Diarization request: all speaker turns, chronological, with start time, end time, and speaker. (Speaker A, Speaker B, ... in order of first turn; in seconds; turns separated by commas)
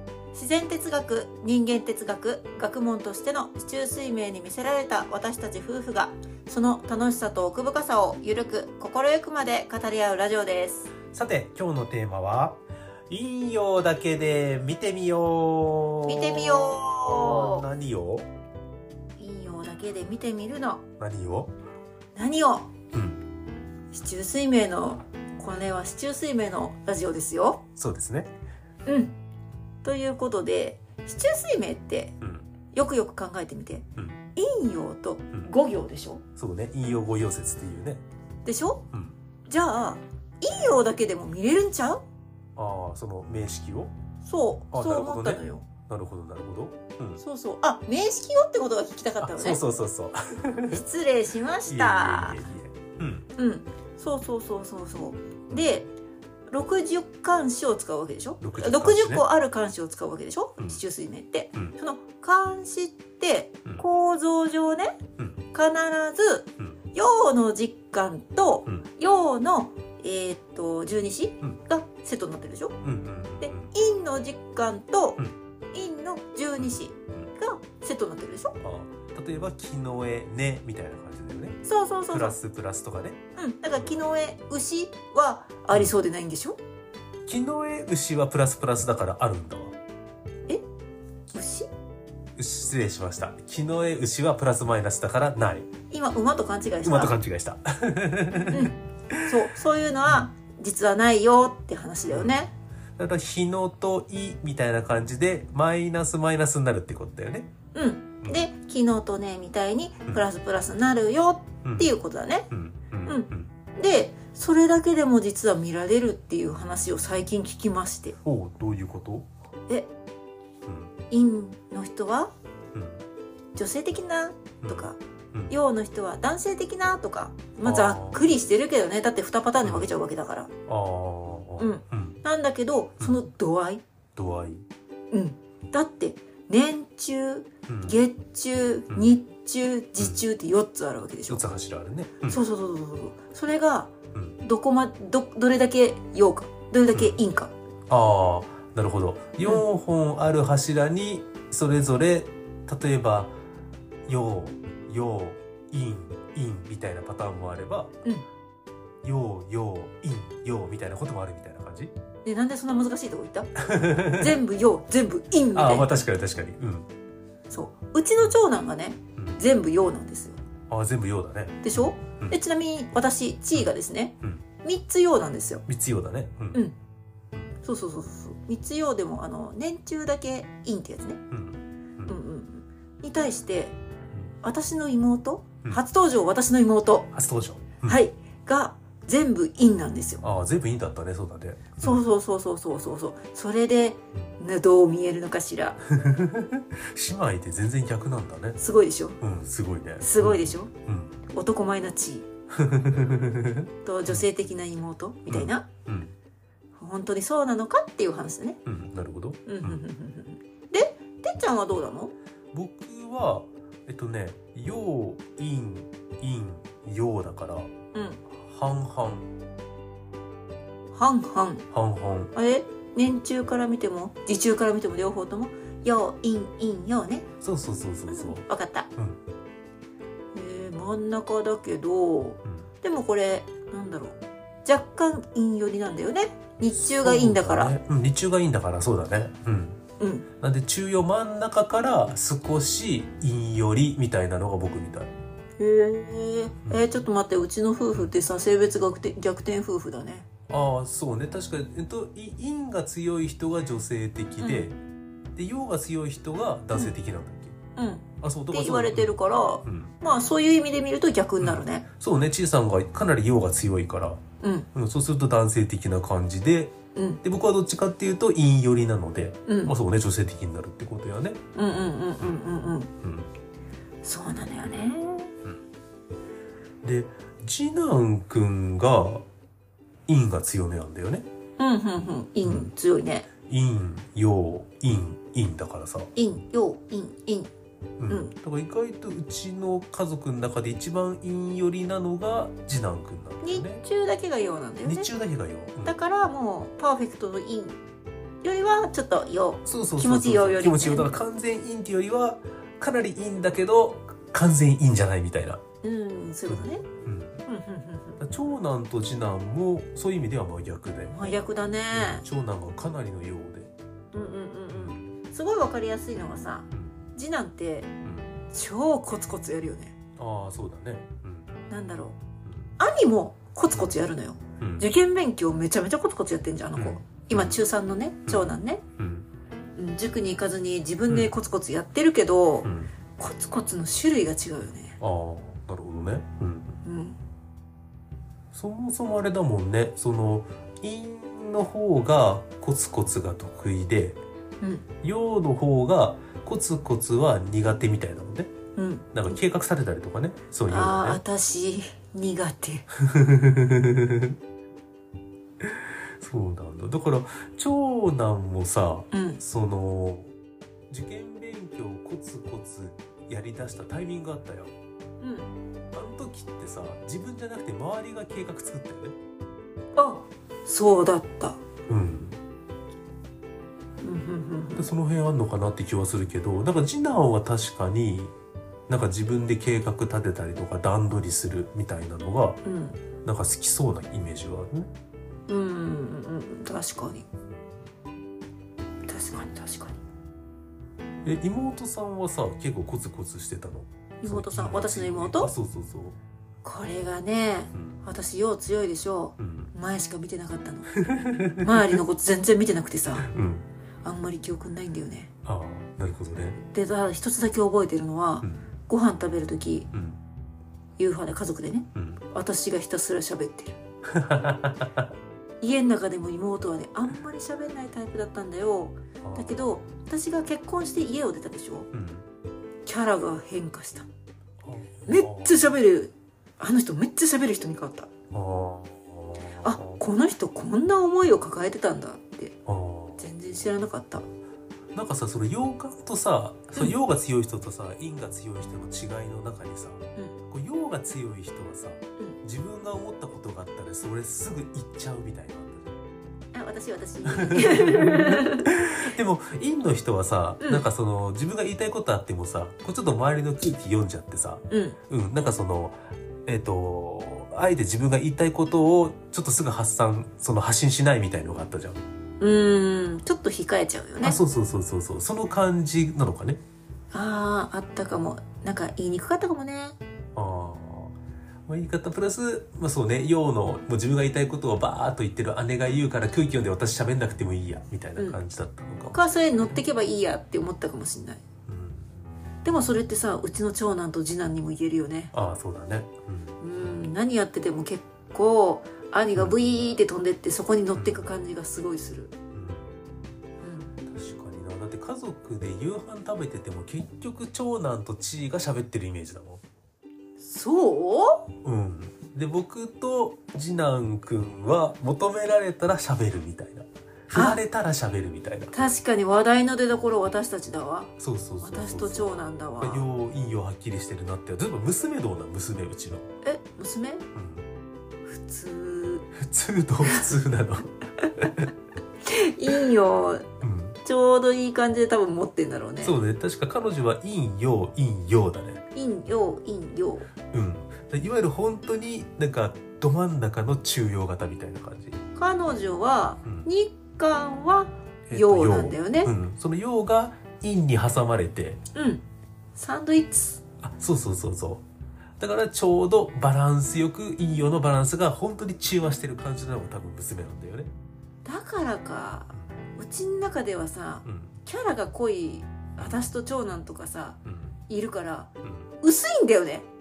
Speaker A: 0.3-10.9, Speaker B: 11.1-12.6, Speaker B: 13.1-18.3, Speaker A: 16.1-17.7, Speaker A: 19.2-20.8, Speaker B: 21.0-21.5, Speaker A: 22.1-22.7, Speaker B: 22.9-23.2, Speaker A: 23.9-27.6, Speaker B: 27.8-28.3, Speaker A: 28.9-29.1, Speaker A: 29.8-32.1, Speaker B: 32.2-32.5, Speaker A: 32.7-33.9, Speaker A: 34.4-36.2, Speaker B: 36.4-38.0, Speaker A: 38.5-38.8, Speaker B: 38.9-39.2, Speaker A: 39.5-42.0, Speaker B: 42.6-43.9, Speaker A: 44.2-45.7, Speaker B: 44.7-47.2, Speaker A: 47.2-49.6, Speaker B: 49.2-50.8, Speaker A: 50.7-52.5, Speaker B: 51.7-53.3, Speaker A: 53.4-55.9, Speaker B: 55.5-55.8, Speaker A: 56.5-65.0, Speaker B: 58.4-59.2, Speaker B: 65.2-65.4, Speaker A: 65.5-72.8, Speaker B: 72.8-73.7, Speaker A: 73.4-75.2, Speaker A: 75.7-78.5, Speaker B: 76.6-77.3, Speaker B: 78.6-81.6, Speaker A: 81.7-82.4, Speaker B: 82.1-83.2, Speaker A: 83.4-86.6, Speaker B: 83.7-84.0, Speaker B: 87.3-89.8, Speaker A: 91.3-91.7, Speaker B: 92.4-95.7, Speaker A: 95.9-97.2, Speaker B: 96.8-99.3, Speaker A: 98.5-102.5, Speaker B: 102.1-107.5, Speaker A: 107.7-112.5, Speaker B: 111.7-111.9, Speaker B: 112.5-113.5, Speaker A: 113.1-118.2, Speaker B: 118.2-119.3, Speaker B: 120.7-120.9, Speaker A: 121.1-122.3, Speaker B: 122.7-123.0, Speaker A: 123.5-130.5, Speaker B: 124.6-125.5, Speaker B: 127.6-128.3, Speaker B: 129.6-129.9, Speaker B: 130.7-132.2, Speaker A: 131.6-133.8, Speaker B: 134.2-134.7, Speaker A: 135.1-141.5, Speaker B: 137.7-138.0, Speaker B: 138.9-139.2, Speaker B: 141.3-142.4, Speaker A: 142.2-143.9, Speaker B: 144.1-144.4, Speaker A: 144.4-147.5, Speaker B: 146.9-147.2, Speaker B: 147.9-153.3, Speaker B: 154.1-157.9, Speaker B: 159.0-161.9, Speaker A: 162.2-165.9, Speaker B: 163.6-164.4, Speaker B: 165.5-166.9, Speaker A: 167.5-170.4, Speaker B: 170.7-172.4, Speaker A: 171.6-175.6, Speaker B: 173.6-174.5, Speaker B: 175.7-176.6, Speaker A: 177.6-181.2, Speaker B: 181.3-182.2, Speaker A: 182.1-183.8, Speaker A: 184.4-187.1, Speaker B: 187.1-188.0, Speaker A: 187.8-190.2, Speaker B: 190.2-192.0, Speaker A: 191.8-195.8, Speaker B: 195.9-198.6, Speaker A: 198.6-199.2, Speaker B: 199.2-201.2, Speaker A: 200.0-200.7, Speaker A: 201.3-202.2, Speaker B: 202.5-204.3, Speaker A: 203.8-205.7, Speaker B: 205.3-206.2, Speaker A: 206.8-208.6, Speaker B: 208.7-209.8, Speaker A: 209.5-212.1, Speaker B: 212.5-217.7, Speaker A: 217.9-218.2, Speaker B: 218.3-219.3, Speaker A: 220.9-221.7, Speaker B: 221.7-222.3, Speaker A: 222.3-227.3, Speaker B: 227.4-229.2, Speaker A: 228.1-228.9, Speaker A: 230.3-237.7, Speaker B: 236.8-239.8, Speaker A: 240.0-240.3, Speaker B: 240.4-245.1, Speaker A: 245.6-250.3, Speaker B: 250.5-254.8, Speaker A: 254.4-254.7, Speaker B: 255.3-257.6, Speaker A: 257.8-261.9, Speaker B: 258.2-260.0, Speaker B: 261.4-264.2, Speaker A: 264.4-264.7, Speaker B: 264.8-271.4, Speaker A: 266.9-267.2, Speaker A: 269.5-269.8, Speaker A: 271.6-272.9, Speaker B: 273.0-273.3, Speaker A: 274.0-275.3, Speaker B: 276.8-279.2, Speaker B: 280.1-281.3, Speaker A: 281.6-283.3, Speaker B: 282.4-282.7, Speaker B: 283.5-286.1, Speaker A: 286.2-287.5, Speaker B: 288.0-293.8, Speaker A: 293.4-295.1, Speaker B: 294.8-296.0, Speaker A: 295.8-297.8, Speaker A: 298.4-301.1, Speaker B: 299.6-305.6, Speaker A: 305.8-306.9, Speaker B: 306.5-307.4, Speaker A: 307.5-308.2, Speaker B: 308.2-311.2, Speaker A: 311.1-312.2, Speaker B: 311.9-313.7, Speaker A: 314.1-317.9, Speaker B: 314.7-315.0, Speaker B: 316.7-317.0, Speaker B: 318.0-318.3, Speaker A: 318.5-319.9, Speaker B: 320.2-321.5, Speaker A: 321.7-322.2, Speaker B: 322.4-322.7, Speaker A: 322.8-328.8, Speaker B: 324.6-324.9, Speaker B: 326.8-327.6, Speaker B: 328.3-329.3, Speaker A: 329.8-335.0, Speaker B: 332.6-332.9, Speaker B: 335.0-336.8, Speaker A: 336.9-337.2, Speaker B: 338.5-344.2, Speaker B: 345.0-348.5, Speaker A: 348.8-349.1, Speaker B: 349.1-351.2, Speaker A: 350.7-352.9, Speaker B: 353.0-354.4, Speaker B: 355.6-360.3, Speaker A: 359.1-359.4, Speaker B: 360.9-364.7, Speaker A: 365.2-365.5, Speaker B: 365.9-369.2, Speaker A: 370.0-371.6, Speaker B: 371.9-372.4, Speaker A: 374.0-374.9, Speaker B: 374.7-378.3, Speaker B: 378.9-382.6, Speaker A: 382.6-383.0, Speaker B: 383.2-384.9, Speaker A: 385.5-387.3, Speaker A: 389.1-390.0, Speaker B: 391.2-396.2, Speaker A: 394.2-395.5, Speaker A: 396.6-400.9, Speaker B: 397.7-398.0, Speaker B: 399.4-399.7, Speaker B: 401.0-402.0, Speaker A: 401.6-403.3, Speaker B: 403.2-403.7, Speaker A: 404.0-405.3, Speaker B: 405.4-406.6, Speaker A: 406.7-409.9, Speaker B: 409.9-410.2, Speaker A: 411.0-413.8, Speaker B: 411.9-412.2, Speaker B: 414.1-415.1, Speaker A: 415.6-421.9, Speaker B: 419.2-419.9, Speaker B: 421.9-422.3, Speaker A: 422.9-424.1, Speaker B: 424.6-425.7, Speaker A: 425.1-428.1, Speaker B: 428.3-430.0, Speaker A: 429.6-432.6, Speaker B: 432.7-433.2, Speaker A: 433.2-434.2, Speaker B: 434.9-446.0, Speaker A: 446.5-448.7, Speaker B: 447.3-462.0, Speaker A: 454.7-455.0, Speaker A: 462.4-464.4, Speaker B: 464.2-466.6, Speaker A: 467.1-470.0, Speaker B: 470.4-471.2, Speaker B: 471.7-479.2, Speaker A: 479.1-481.4, Speaker B: 481.7-482.2, Speaker A: 482.6-485.3, Speaker B: 485.3-486.6, Speaker A: 486.6-492.3, Speaker B: 489.4-489.7, Speaker B: 491.0-491.3, Speaker B: 492.5-493.0, Speaker A: 493.6-493.9, Speaker B: 494.1-499.6, Speaker A: 500.4-501.5, Speaker B: 501.6-508.7, Speaker A: 507.3-507.6, Speaker A: 508.7-511.1, Speaker B: 511.2-516.3, Speaker A: 511.6-513.1, Speaker A: 516.4-517.3, Speaker B: 517.3-517.7, Speaker A: 518.2-519.3, Speaker B: 519.4-521.7, Speaker A: 522.2-523.5, Speaker B: 523.6-524.0, Speaker A: 524.0-526.2, Speaker B: 526.0-528.8, Speaker A: 529.0-530.3, Speaker B: 530.5-535.2, Speaker A: 535.4-539.3, Speaker B: 538.3-541.8, Speaker A: 541.9-542.2, Speaker A: 542.8-543.6, Speaker B: 543.8-544.8, Speaker B: 545.4-550.9, Speaker A: 551.5-558.5, Speaker B: 554.2-554.6, Speaker B: 557.5-557.8, Speaker B: 558.6-558.9, Speaker A: 559.0-559.9